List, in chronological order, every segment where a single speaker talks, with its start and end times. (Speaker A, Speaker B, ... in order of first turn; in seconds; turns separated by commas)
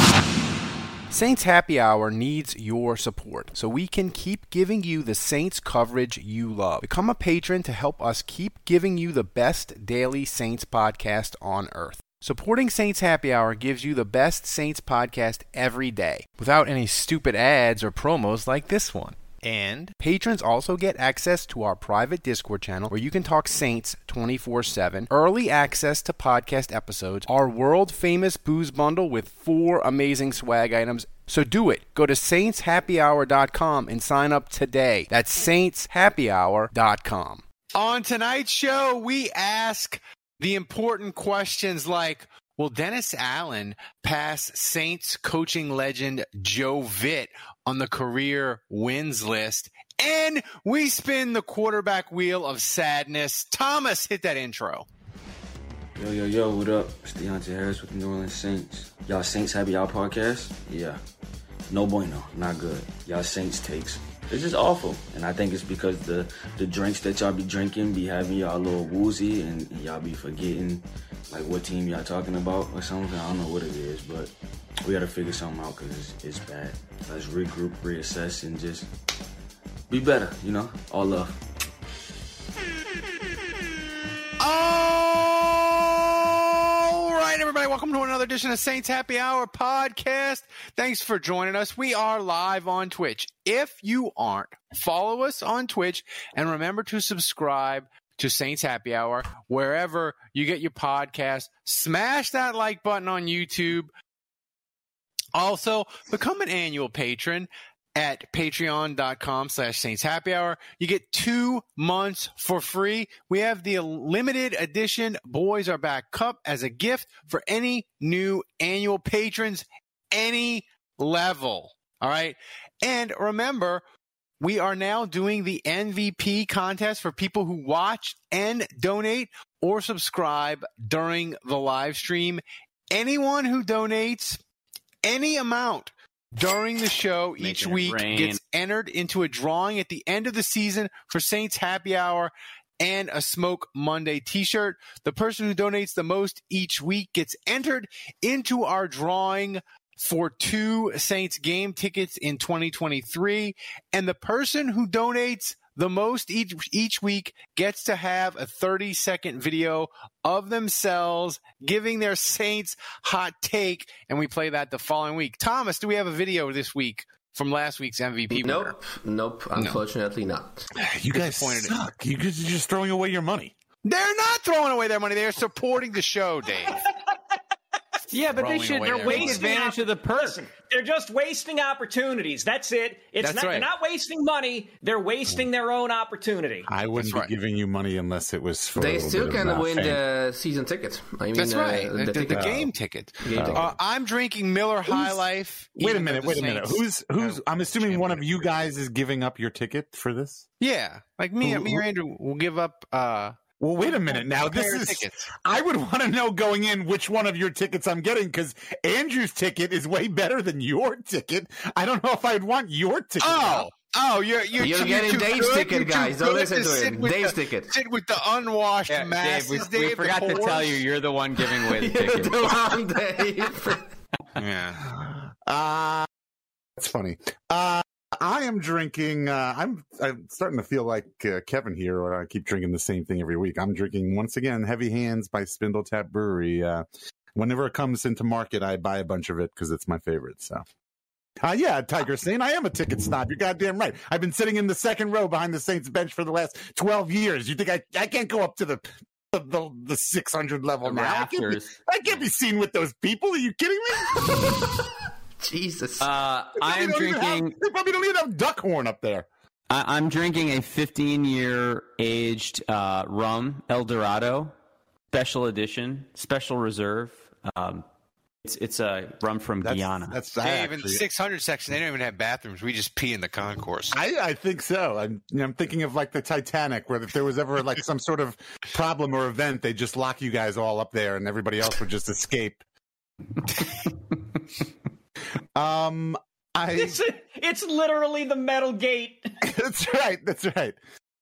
Speaker A: 1.1-54.9, Speaker B: 56.0-61.0, Speaker B: 61.7-74.3, Speaker B: 74.8-78.9, Speaker B: 79.9-81.4, Speaker A: 84.4-103.9, Speaker A: 105.3-123.8, Speaker A: 124.4-134.4, Speaker A: 135.0-168.7, Speaker C: 137.4-138.4, Speaker D: 168.3-170.7, Speaker E: 170.9-173.5, Speaker A: 171.1-171.8, Speaker A: 173.8-176.8, Speaker C: 178.1-180.3, Speaker A: 178.3-179.5, Speaker F: 179.0-186.7, Speaker A: 183.2-183.7, Speaker E: 186.7-190.0, Speaker A: 187.0-187.3, Speaker D: 188.8-192.7, Speaker A: 191.3-198.5, Speaker E: 192.3-192.7, Speaker D: 193.2-193.7, Speaker E: 193.3-193.7, Speaker E: 194.9-195.2, Speaker E: 195.8-200.5, Speaker A: 200.6-205.3, Speaker E: 201.4-201.8, Speaker E: 203.6-213.7, Speaker A: 213.2-220.8, Speaker D: 214.6-217.7, Speaker C: 218.9-222.6, Speaker D: 221.4-223.9, Speaker A: 224.4-224.8, Speaker E: 224.9-226.1, Speaker E: 226.8-240.6, Speaker E: 241.4-254.7, Speaker C: 250.8-251.7, Speaker D: 255.4-256.1, Speaker C: 256.0-257.5, Speaker E: 256.6-259.3, Speaker C: 259.7-264.5, Speaker C: 265.1-267.8, Speaker C: 268.4-270.1, Speaker E: 269.6-271.1, Speaker A: 270.4-274.0, Speaker E: 273.9-282.6, Speaker E: 285.5-287.0, Speaker F: 286.7-289.3, Speaker E: 289.4-290.8